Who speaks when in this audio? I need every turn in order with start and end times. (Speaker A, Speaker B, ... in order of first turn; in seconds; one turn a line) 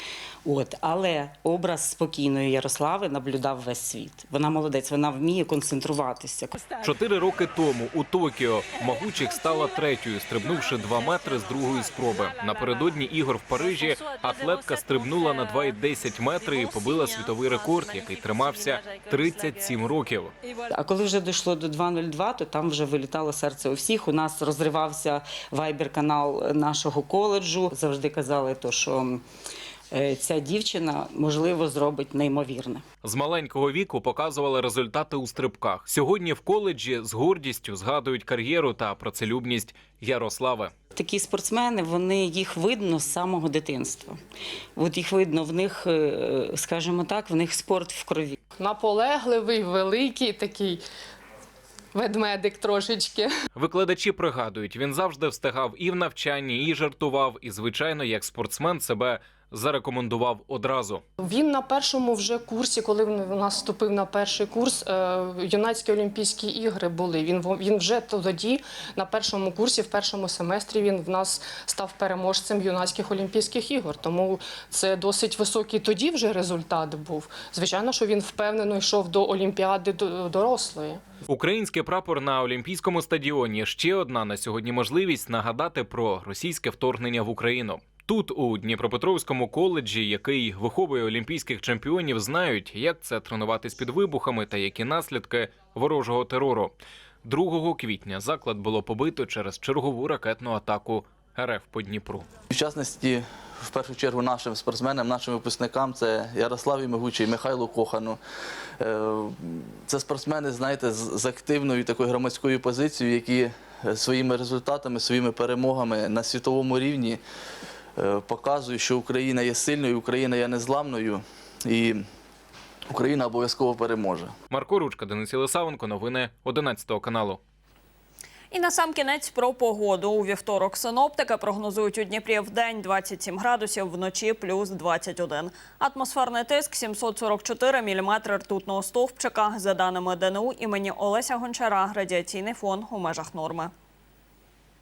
Speaker A: 0.5-6.6
Speaker B: 6.7-20.3
Speaker A: 20.7-29.2
Speaker A: 29.9-32.9
Speaker B: 33.0-40.7
Speaker A: 41.0-44.2
Speaker A: 44.8-48.4
Speaker C: 48.6-50.8
Speaker C: 51.9-53.3
Speaker B: 53.5-61.0
Speaker C: 61.2-81.0
Speaker B: 81.3-102.3
Speaker D: 102.5-108.2
Speaker D: 108.8-117.2
Speaker D: 118.0-122.1
Speaker D: 122.9-124.3
Speaker B: 124.5-127.4
Speaker E: 128.5-143.7